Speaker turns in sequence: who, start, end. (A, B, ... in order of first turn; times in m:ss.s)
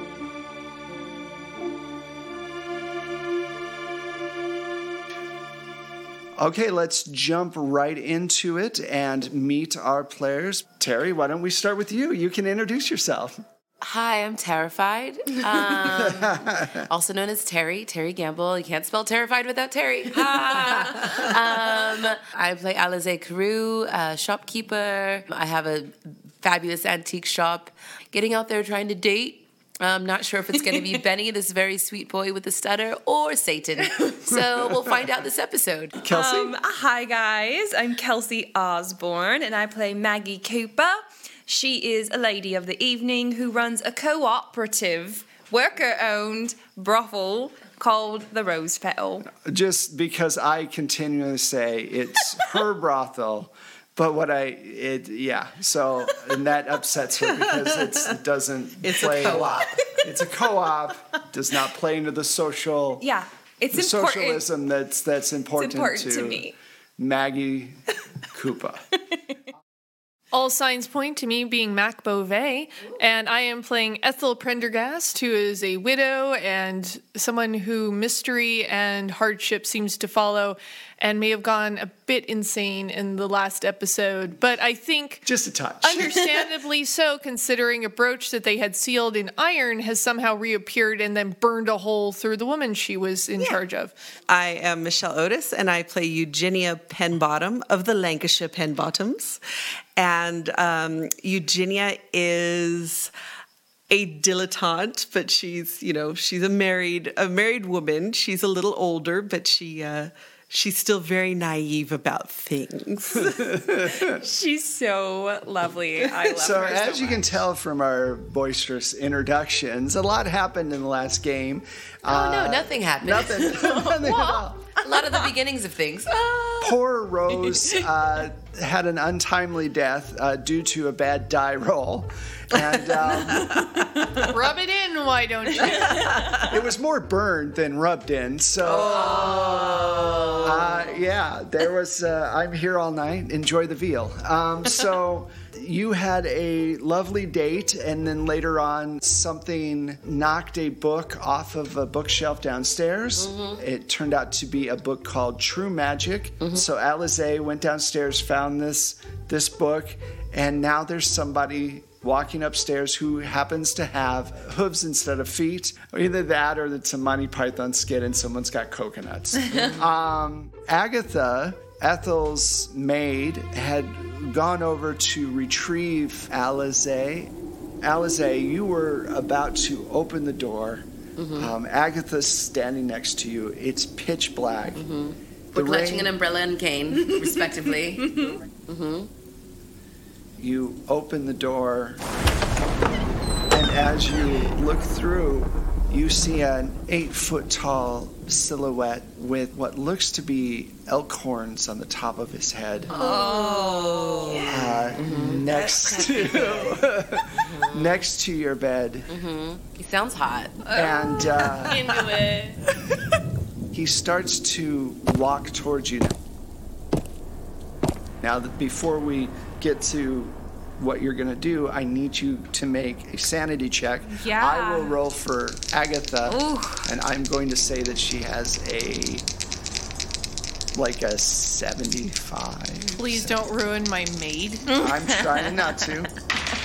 0:06.4-0:13.4 A
0:13.8-0:36.0 B
0:15.8-0:16.8 A
0:36.0-0:36.5 A
0:36.0-0:49.3 C
0:49.3-1:03.0 A
0:57.4-0:57.8 D
0:58.8-1:00.1 D
0:59.2-0:59.6 B
1:03.0-1:04.4 C
1:03.7-1:06.5 A
1:05.6-1:06.5 C
1:07.0-1:08.8 A
1:10.3-1:25.3 E
1:25.2-1:26.2 A
1:25.8-1:33.9 E
1:34.3-1:39.4 D
1:40.0-1:43.1 D
1:43.9-1:53.6 D
1:53.2-1:54.2 A
1:54.1-1:57.3 C
1:56.3-2:04.8 A
2:02.0-2:06.6 B
2:06.6-2:13.8 A
2:13.5-2:13.8 D
2:14.2-2:16.2 E
2:16.1-2:16.4 D
2:16.3-2:19.3 A
2:18.7-2:20.8 B
2:18.9-2:20.3 D
2:20.4-3:04.8 A
2:33.2-2:33.6 B
2:49.5-2:49.8 B
3:01.2-3:01.5 B
3:04.7-3:09.1 B
3:05.5-3:06.1 A
3:08.0-3:08.3 C
3:10.4-3:12.0 A
3:13.5-3:22.9 A
3:22.9-3:24.8 C
3:22.9-3:26.8 B
3:24.4-3:29.1 A
3:25.9-3:26.5 C
3:27.3-3:28.0 B
3:29.1-3:30.7 B
3:30.7-3:31.8 A
3:30.7-3:32.0 C
3:31.6-3:32.6 E
3:33.7-3:36.2 A
3:38.2-3:49.2 A
3:44.1-3:45.0 C
3:46.3-3:46.8 C
3:50.7-3:53.4 A
3:53.0-3:54.7 E
3:54.7-3:55.6 B
3:54.7-3:56.1 A